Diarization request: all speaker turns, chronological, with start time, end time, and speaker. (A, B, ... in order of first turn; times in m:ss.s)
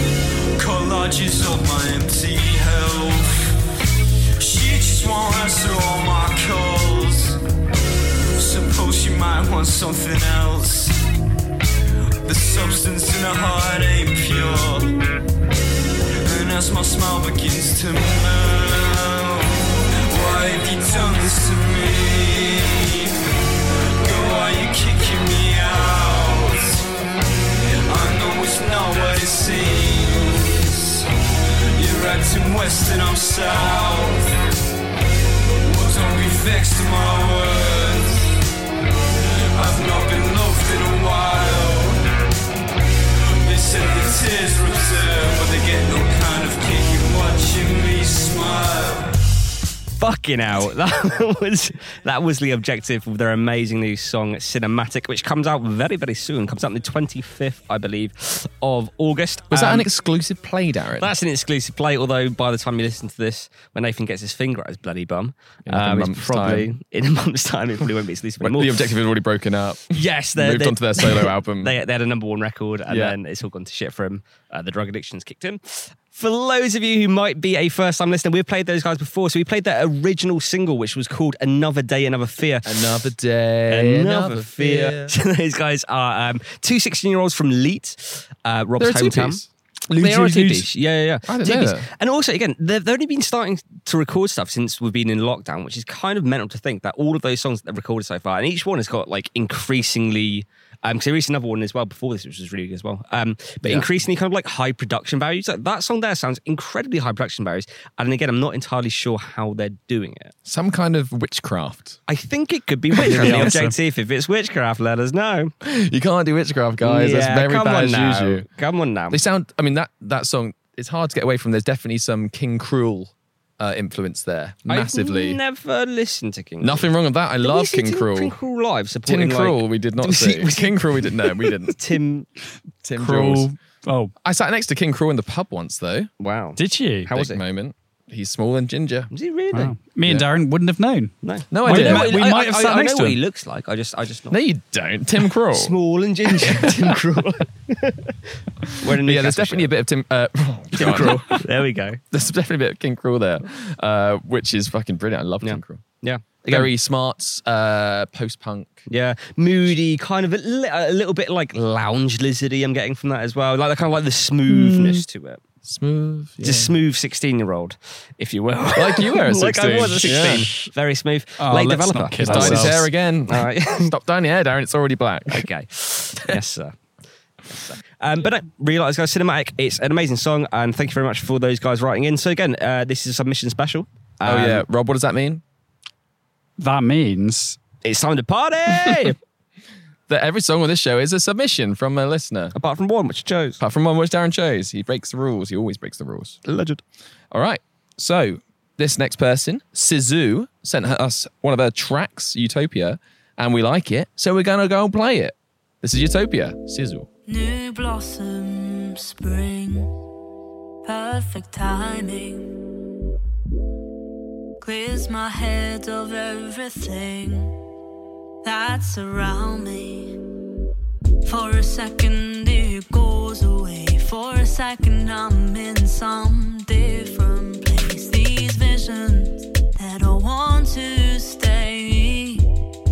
0:00.6-0:03.3 A
0:04.4-0:07.4 A
0:08.3-0:11.0 A
0:12.2-0:14.9 A
0:16.2-0:23.2 A
0:24.0-0:26.9 A
0:27.9-0:31.1 A
0:31.7-0:34.3 A
0:35.6-0:38.3 A
0:39.5-0:42.0 A
0:43.4-0:49.2 A
0:50.0-0:59.9 B
0:59.5-1:01.1 C
1:01.0-1:08.9 B
1:05.7-1:06.7 C
1:08.4-1:11.8 C
1:09.9-1:22.9 B
1:12.9-1:13.2 C
1:22.6-1:25.1 C
1:23.7-1:50.3 B
1:28.8-1:30.7 C
1:31.2-1:31.9 C
1:43.6-1:43.9 C
1:50.5-1:52.0 C
1:52.1-1:55.5 B
1:53.0-1:53.6 C
1:53.0-1:53.8 D
1:55.6-1:58.5 C
1:56.8-1:59.2 B
1:59.1-2:05.4 C
2:04.7-2:06.9 B
2:06.6-2:08.3 C
2:07.4-2:12.3 B
2:09.1-2:11.8 C
2:12.8-2:13.5 C
2:13.0-2:14.1 D
2:14.2-2:16.1 C
2:16.2-2:17.4 B
2:16.6-2:17.1 D
2:17.1-2:19.1 C
2:19.1-2:19.8 B
2:19.5-2:23.2 D
2:21.2-2:24.4 B
2:21.5-2:22.3 C
2:24.3-2:25.7 C
2:25.4-2:29.7 B
2:26.3-2:26.9 C
2:28.9-2:31.2 C
2:30.7-2:32.0 B
2:32.1-2:35.8 C
2:35.4-2:36.7 B
2:36.5-2:38.8 C
2:38.9-2:45.4 B
2:44.5-2:45.0 D
2:45.6-2:46.7 C
2:46.4-2:53.9 B
2:48.8-2:50.5 C
2:51.4-2:52.8 D
2:52.2-2:55.5 C
2:55.3-2:56.8 B
2:57.6-3:04.6 B
3:04.2-3:05.4 C
3:06.6-3:07.6 D
3:07.8-3:09.2 B
3:08.9-3:09.1 C
3:10.1-3:12.5 C
3:12.6-3:13.6 B
3:13.6-3:16.4 C
3:16.4-3:16.8 B
3:17.3-3:27.1 C
3:27.3-3:29.9 E
3:30.8-3:32.6 E
3:34.6-3:37.6 E
3:38.4-3:40.2 E
3:41.2-3:52.4 E